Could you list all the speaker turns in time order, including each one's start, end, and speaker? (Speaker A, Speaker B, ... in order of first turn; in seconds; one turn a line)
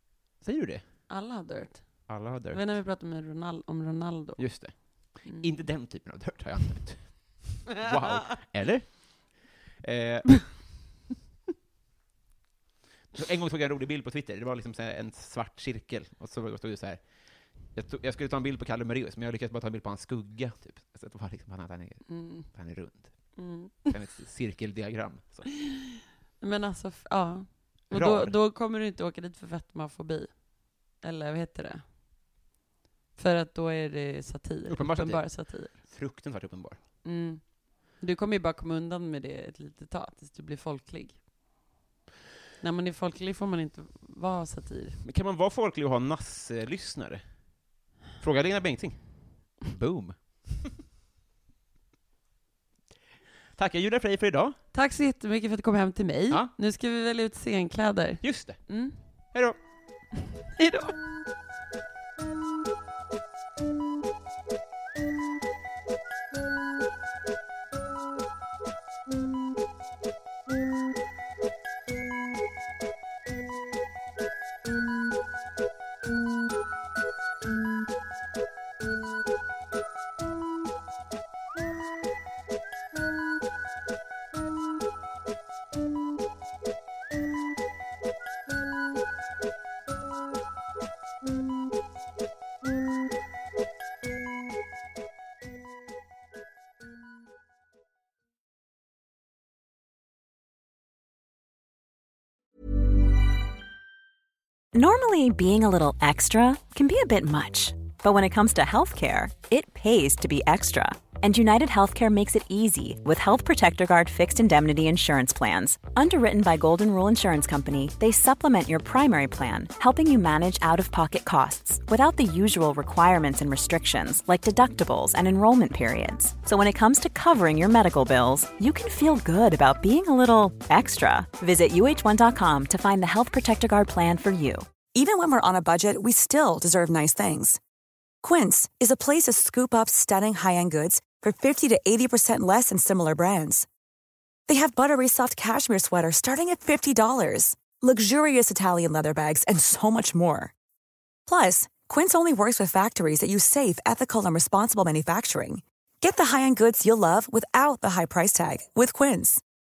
Speaker A: 0.4-1.1
Speaker B: 1.1-5.5
Speaker A: 2.1-2.7
Speaker A: 4.4-10.7
Speaker A: 13.1-23.4
Speaker B: 22.1-22.5
Speaker B: 23.4-23.9
Speaker A: 23.9-25.5
Speaker B: 26.4-31.8
Speaker A: 27.9-28.4
Speaker B: 33.2-35.8
Speaker A: 34.7-36.8
Speaker B: 37.0-41.2
Speaker B: 42.6-45.0
Speaker A: 45.0-47.4
Speaker A: 48.2-50.8
Speaker A: 53.6-54.6
Speaker B: 54.7-59.0
Speaker A: 58.2-58.7
Speaker A: 59.3-59.6
Speaker B: 60.5-61.0
Speaker C: 104.7-134.7
Speaker D: 134.9-137.6
Speaker D: 138.2-143.7
Speaker D: 144.5-150.5
Speaker D: 151.3-159.4